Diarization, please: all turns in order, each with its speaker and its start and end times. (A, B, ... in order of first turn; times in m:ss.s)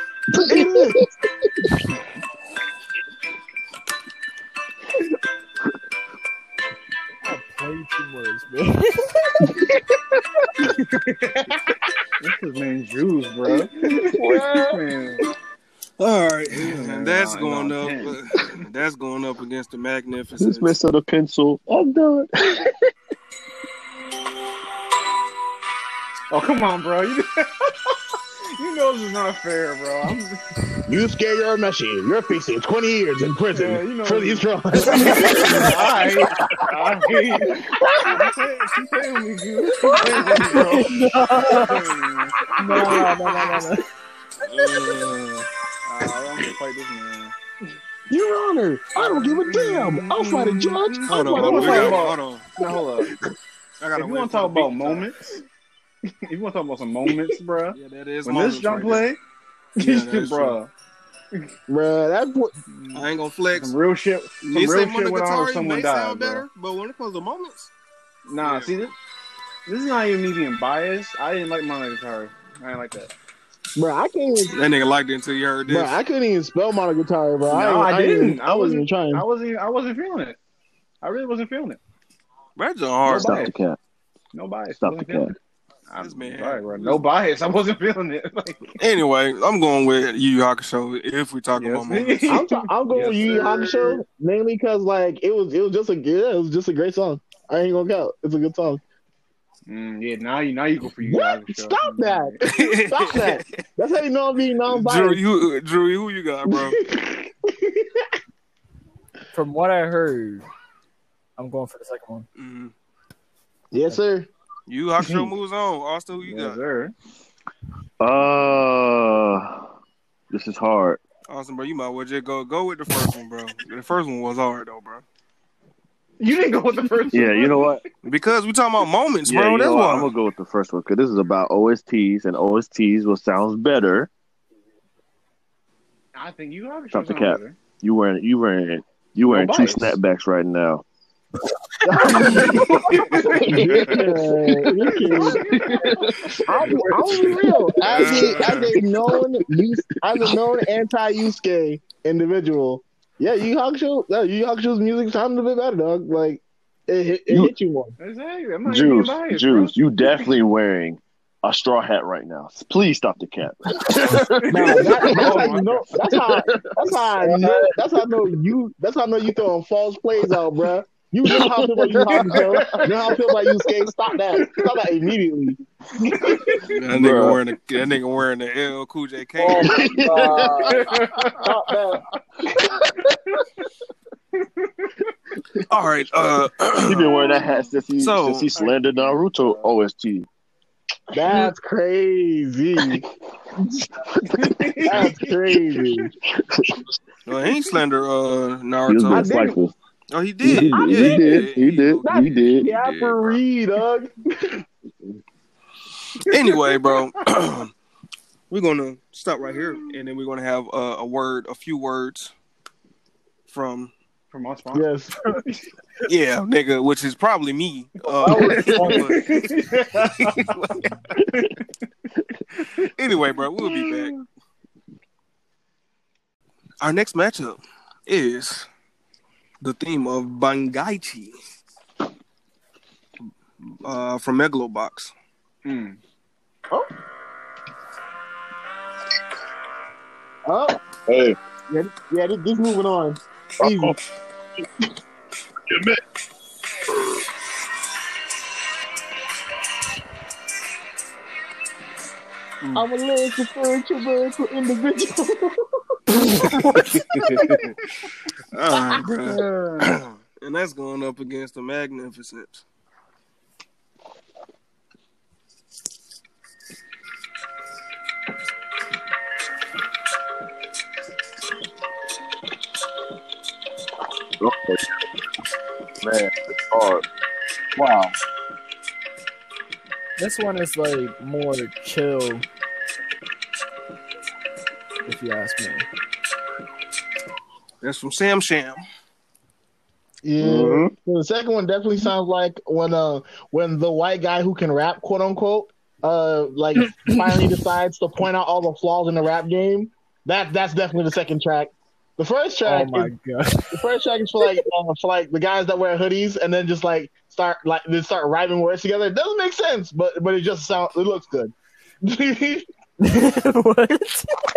0:00.3-0:01.1 A
0:00.4-0:01.0 B
0:07.2-0:09.5 C
0:11.1-0:11.6 A
0:12.2-0:15.2 D
0:13.6-0:14.8 A
0:16.0-0:20.8 E
0:16.5-0:18.2 D
0:20.4-0:22.7 B
0:26.3-0:28.0 D
0:28.5-0:30.4 D
0:30.8-0:36.7 A
0:33.4-0:42.4 D
0:37.5-0:38.2 A
0:39.8-0:40.6 A
0:40.5-0:41.8 C
0:42.6-0:43.8 C
0:42.7-0:43.0 A
0:44.5-0:45.3 E
0:44.7-0:47.3 D
0:48.1-0:53.1 A
0:48.9-0:53.1 D
0:51.1-0:52.5 E
0:53.8-0:55.1 E
0:54.0-0:55.4 D
0:56.3-0:59.2 D
0:57.7-0:59.1 E
0:59.8-1:00.7 D
0:59.8-1:00.6 E
1:01.7-1:02.5 A
1:02.7-1:06.4 D
1:02.9-1:03.7 E
1:04.4-1:07.7 E
1:08.2-1:08.9 D
1:08.4-1:08.8 E
1:09.6-1:13.1 D
1:13.7-1:14.5 A
1:14.5-1:15.9 E
1:15.7-1:19.2 A
1:17.4-1:20.4 D
1:21.0-1:21.8 D
1:22.6-1:23.4 E
1:23.0-1:23.8 B
1:23.1-1:23.5 D
1:23.1-1:23.4 A
1:24.3-1:25.4 D
1:24.8-1:25.3 B
1:25.9-1:28.8 D
1:26.0-1:27.0 E
1:28.8-1:32.4 E
1:31.6-1:34.0 D
1:32.3-1:38.8 A
1:39.7-1:42.4 D
1:41.0-1:45.2 A
1:42.4-1:43.6 E
1:44.7-1:46.8 E
1:46.5-1:48.1 A
1:49.3-1:50.4 C
1:51.4-1:52.3 C
1:52.4-1:52.7 E
1:53.7-1:54.3 A
1:54.7-1:56.6 E
1:56.2-1:56.9 D
1:58.0-1:59.7 B
2:00.3-2:01.0 B
2:01.3-2:05.0 E
2:06.2-2:07.8 D
2:07.1-2:07.8 B
2:08.0-2:10.1 E
2:09.2-2:14.1 B
2:16.1-2:17.6 D
2:16.9-2:20.8 B
2:19.3-2:20.0 D
2:21.8-2:25.4 A
2:22.1-2:24.1 D
2:22.3-2:22.6 B
2:23.2-2:28.3 B
2:24.8-2:28.8 D
2:26.5-2:37.9 A
2:27.9-2:28.3 E
2:30.2-2:30.5 B
2:38.0-2:40.2 D
2:38.6-2:47.7 B
2:43.9-2:45.9 D
2:44.5-2:55.6 A
2:51.2-2:52.8 B
2:52.1-2:52.9 D
2:54.3-2:54.6 D
2:56.1-2:56.4 A
2:56.1-2:56.6 D
2:56.6-3:00.0 E
2:56.9-2:57.4 B
2:59.4-3:00.7 C
2:59.5-3:01.2 B
3:00.4-3:01.5 D
3:01.4-3:02.0 A
3:04.4-3:05.1 D
3:05.7-3:07.2 E
3:06.8-3:10.3 B
3:07.0-3:07.6 D
3:08.0-3:08.5 E
3:08.5-3:09.7 D
3:11.1-3:13.0 A
3:13.7-3:14.2 A
3:14.3-3:15.3 D
3:14.8-3:16.1 A
3:16.4-3:16.8 B
3:17.2-3:19.3 E
3:18.9-3:19.7 B
3:19.1-3:19.6 A
3:20.1-3:23.4 E
3:20.4-3:22.8 B
3:20.5-3:21.5 A
3:22.0-3:24.6 A
3:26.2-3:27.1 D
3:26.3-3:27.7 E
3:28.5-3:32.3 E
3:33.5-3:33.9 E
3:34.3-3:35.6 D
3:34.7-3:35.2 A
3:36.0-3:41.0 E
3:38.2-3:40.5 D
3:38.2-3:39.2 A
3:41.3-3:41.6 D
3:42.9-3:44.1 E
3:43.6-3:44.2 D
3:46.8-3:48.7 E
3:49.6-3:51.3 E
3:53.8-3:55.1 E
3:55.6-3:56.0 D
4:00.4-4:00.8 A
4:01.1-4:01.4 B
4:01.7-4:04.0 A
4:03.6-4:04.0 B
4:05.7-4:06.0 B
4:12.7-4:15.6 A
4:16.8-4:17.7 D
4:17.2-4:17.6 A
4:18.5-4:22.6 E
4:19.2-4:19.8 D
4:34.4-4:34.9 B
4:36.0-4:37.0 B
4:37.8-4:38.1 B
4:40.2-4:42.4 C
4:45.0-4:45.8 C
4:47.8-4:48.8 E
4:50.2-5:03.1 A
4:50.4-4:50.9 B
5:02.6-5:03.7 C
5:03.7-5:11.5 A
5:12.0-5:12.6 A
5:13.0-5:14.3 C